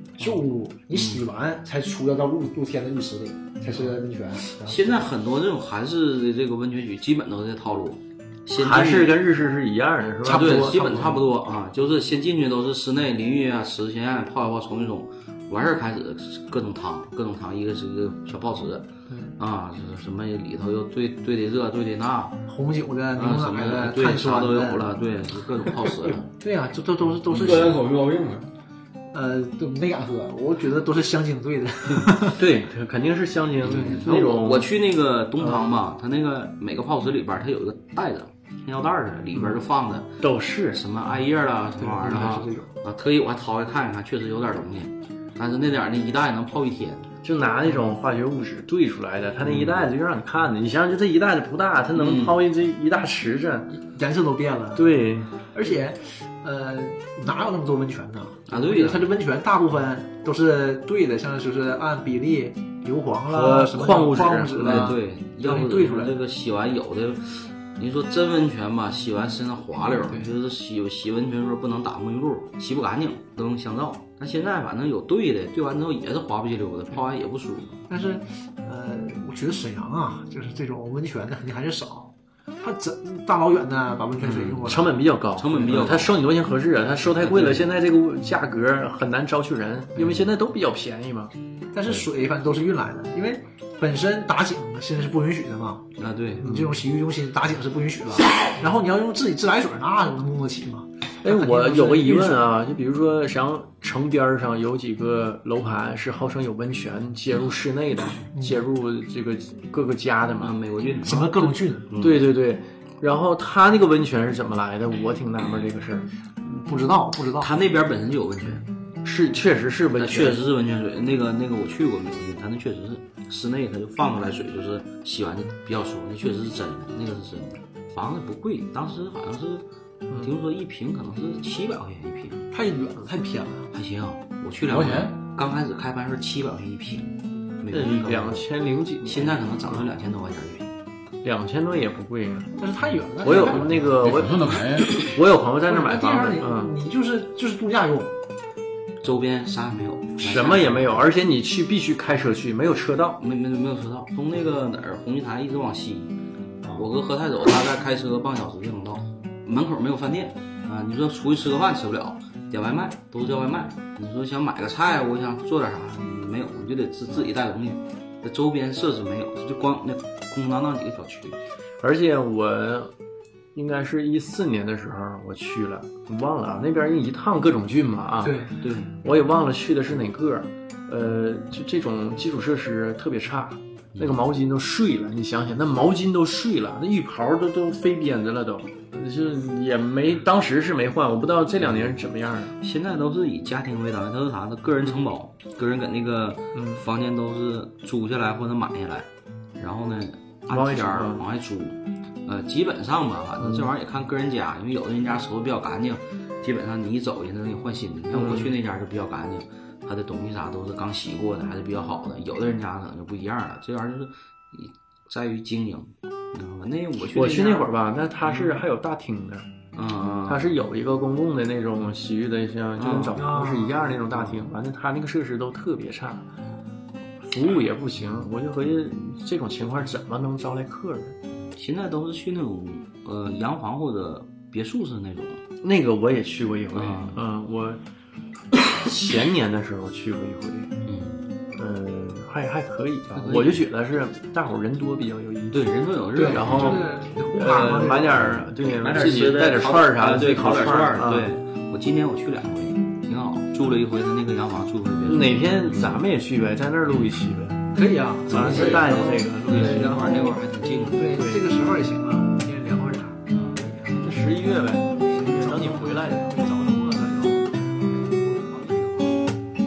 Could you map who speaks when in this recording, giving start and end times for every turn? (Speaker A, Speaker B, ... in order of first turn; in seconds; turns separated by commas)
Speaker A: 0.2-5.1, Speaker B: 0.9-1.2, Speaker B: 4.6-9.2, Speaker C: 8.6-11.3, Speaker B: 10.2-22.4, Speaker A: 19.1-19.4, Speaker A: 22.5-25.0, Speaker B: 23.1-26.3, Speaker A: 26.4-27.8, Speaker D: 27.3-28.5, Speaker B: 27.3-27.8, Speaker A: 29.1-32.5, Speaker C: 32.4-34.7, Speaker B: 33.6-40.1, Speaker A: 33.6-34.2, Speaker C: 35.4-35.7, Speaker C: 39.3-39.6, Speaker C: 40.2-40.8, Speaker B: 40.7-47.1, Speaker A: 41.8-42.7, Speaker C: 42.1-42.4, Speaker C: 47.2-53.8, Speaker B: 49.4-49.9, Speaker B: 52.0-52.4, Speaker A: 53.9-66.2, Speaker C: 54.8-55.4, Speaker B: 58.5-59.1, Speaker C: 63.3-65.0, Speaker B: 64.6-77.8, Speaker A: 70.1-70.3, Speaker A: 77.9-85.0, Speaker C: 84.2-91.3, Speaker B: 85.3-86.2, Speaker B: 87.1-87.7, Speaker B: 90.0-90.3, Speaker A: 91.7-95.9, Speaker B: 96.0-96.5, Speaker A: 96.4-102.5, Speaker C: 96.4-96.8, Speaker C: 101.2-110.5, Speaker B: 110.4-112.3, Speaker A: 111.0-111.9, Speaker C: 112.0-116.1, Speaker A: 116.4-117.5, Speaker B: 117.4-118.7, Speaker C: 119.0-120.4, Speaker B: 120.0-132.5, Speaker A: 132.5-133.7, Speaker B: 133.7-138.5, Speaker D: 134.7-135.1, Speaker C: 137.7-139.9, Speaker B: 139.1-140.7, Speaker C: 141.2-142.5, Speaker A: 142.6-143.9, Speaker C: 143.2-146.7, Speaker D: 143.3-145.1, Speaker A: 145.7-148.2, Speaker B: 149.0-151.1, Speaker C: 150.2-153.2, Speaker B: 153.2-156.1, Speaker B: 156.7-171.4, Speaker C: 171.8-172.9, Speaker C: 173.5-192.6, Speaker A: 178.2-178.6, Speaker B: 178.6-178.9, Speaker B: 192.6-217.7, Speaker C: 196.5-196.8, Speaker C: 200.5-201.2, Speaker C: 203.4-203.7, Speaker C: 208.1-208.6, Speaker C: 217.1-219.5, Speaker A: 217.1-217.7, Speaker B: 218.2-218.6, Speaker B: 219.8-220.5, Speaker C: 220.2-226.3, Speaker B: 222.8-223.4, Speaker A: 223.2-224.0, Speaker B: 224.1-224.5, Speaker C: 227.2-231.2, Speaker B: 231.5-235.4, Speaker C: 235.6-237.8, Speaker B: 236.7-237.2, Speaker C: 238.6-240.7, Speaker B: 240.8-241.2, Speaker C: 241.6-245.6, Speaker B: 243.1-243.6, Speaker B: 245.5-246.9, Speaker C: 246.2-251.3, Speaker A: 246.2-248.4, Speaker B: 248.8-256.0, Speaker C: 255.1-257.6, Speaker A: 257.7-260.4, Speaker C: 258.3-260.2, Speaker B: 258.3-261.8, Speaker D: 258.5-258.9, Speaker A: 260.9-264.1, Speaker C: 261.1-261.6, Speaker B: 263.3-263.7, Speaker C: 264.0-266.5, Speaker A: 265.0-268.5, Speaker B: 268.3-269.3